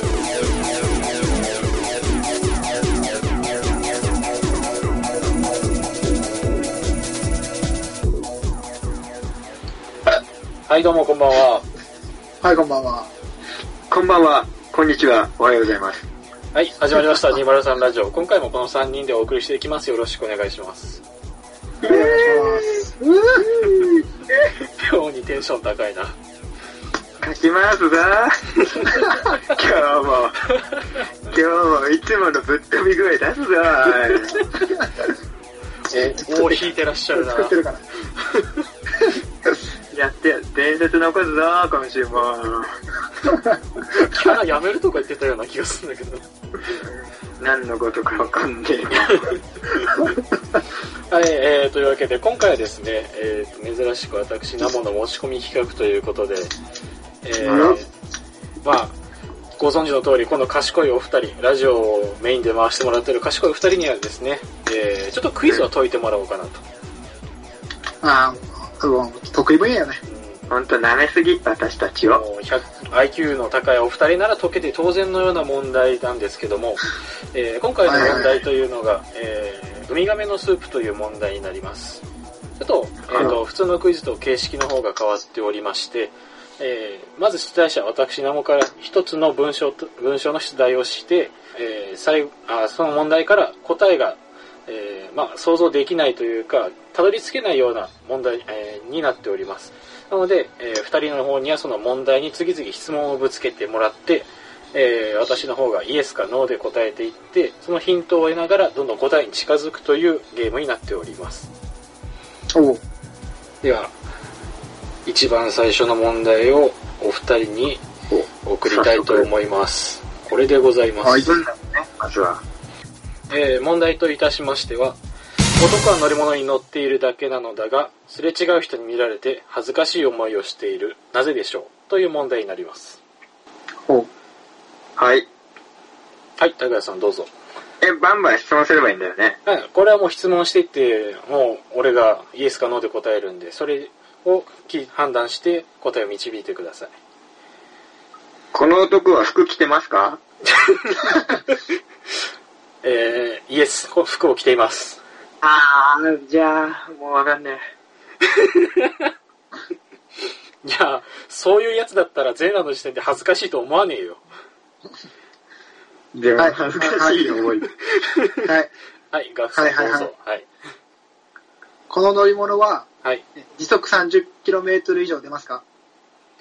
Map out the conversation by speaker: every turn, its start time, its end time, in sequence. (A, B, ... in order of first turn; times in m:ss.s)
0:10.7-0:11.7 A
0:12.4-0:13.1 B
0:13.9-0:16.0 C
0:16.5-0:21.0 A
0:21.8-0:24.3 C
0:21.8-0:23.5 B
0:24.6-0:26.2 A
0:27.2-0:30.4 C
0:31.3-0:34.6 C
0:35.9-0:37.5 A
0:36.0-0:37.9 B
0:39.9-0:42.8 C
0:43.9-0:46.3 A
0:46.7-0:49.4 C
0:51.1-0:56.5 A
0:57.2-0:57.9 A
0:57.4-0:57.8 C
0:57.5-0:57.8 B
0:58.6-0:59.0 A
0:59.6-1:06.6 A
1:08.0-1:10.0 B
1:10.0-1:10.4 A
1:10.5-1:12.2 C
1:12.0-1:22.0 A
1:17.8-1:18.4 B
1:22.6-1:51.5 A
1:23.1-1:23.4 C
1:52.5-1:52.8 B
1:53.6-1:53.9 A
1:55.0-1:57.8 A
1:58.1-1:59.3 C
1:58.4-2:01.3 A
2:01.0-2:01.3 B
2:01.2-2:02.4 C
2:03.3-2:05.0 A
2:05.6-2:13.0 A
2:15.0-2:15.3 C
2:16.4-2:17.3 A
2:17.8-2:19.4 C
2:19.4-2:27.0 A
2:28.5-2:30.2 C
2:30.6-2:31.5 A
2:32.8-2:35.0 A
2:35.4-2:37.6 C
2:38.4-2:39.1 A
2:40.6-2:44.2 A
2:46.1-2:47.7 C
2:46.4-2:47.5 B
2:48.0-2:48.5 A
2:48.4-2:48.7 B
2:49.1-2:50.5 A
2:49.5-2:50.1 B
2:51.9-2:55.6 B